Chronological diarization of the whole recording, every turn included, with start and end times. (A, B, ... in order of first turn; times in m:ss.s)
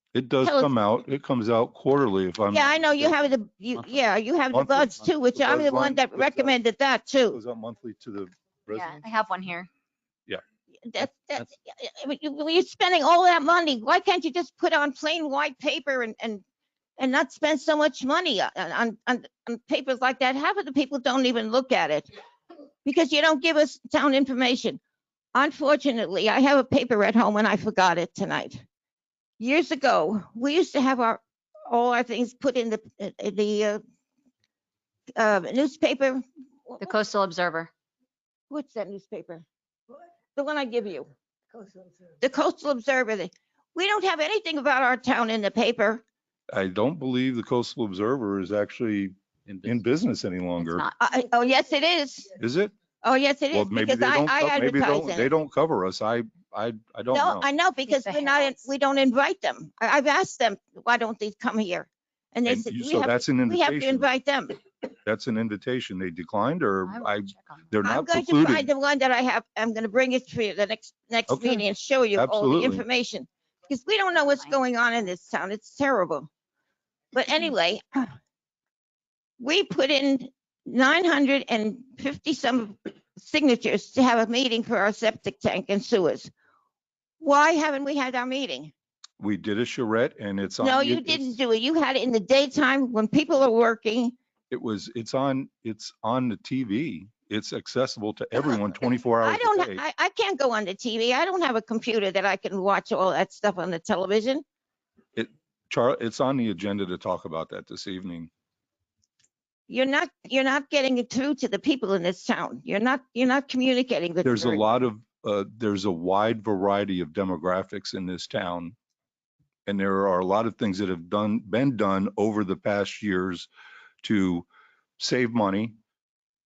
0:00.1-0:03.2 A
0:00.4-0:00.7 B
0:02.5-0:07.4 B
0:04.5-0:06.5 A
0:07.3-0:09.0 A
0:08.7-0:09.7 C
0:10.9-0:16.4 B
0:11.0-0:11.4 A
0:17.0-0:22.1 B
0:22.8-0:24.8 B
0:25.3-0:28.6 B
0:29.4-0:33.8 B
0:35.2-0:36.9 B
0:36.8-0:37.7 C
0:38.5-0:39.4 B
0:40.4-0:41.1 B
0:42.2-0:46.0 B
0:46.5-0:50.9 A
0:50.6-0:50.9 C
0:51.0-0:52.4 B
0:52.4-0:52.7 A
0:53.0-0:55.3 B
0:53.5-0:57.5 A
0:57.1-1:04.6 B
0:57.9-0:58.6 C
1:02.4-1:04.1 A
1:05.0-1:08.7 A
1:06.8-1:07.7 C
1:07.8-1:16.3 B
1:11.3-1:12.8 A
1:17.1-1:18.1 B
1:19.4-1:26.3 B
1:27.2-1:28.7 B
1:29.2-1:31.4 A
1:30.6-1:34.1 B
1:34.5-1:39.8 A
1:39.2-1:44.4 B
1:45.2-1:48.3 A
1:49.7-1:54.7 B
1:54.2-1:58.8 A
1:59.6-2:03.5 A
2:04.0-2:04.5 A
2:05.0-2:05.7 A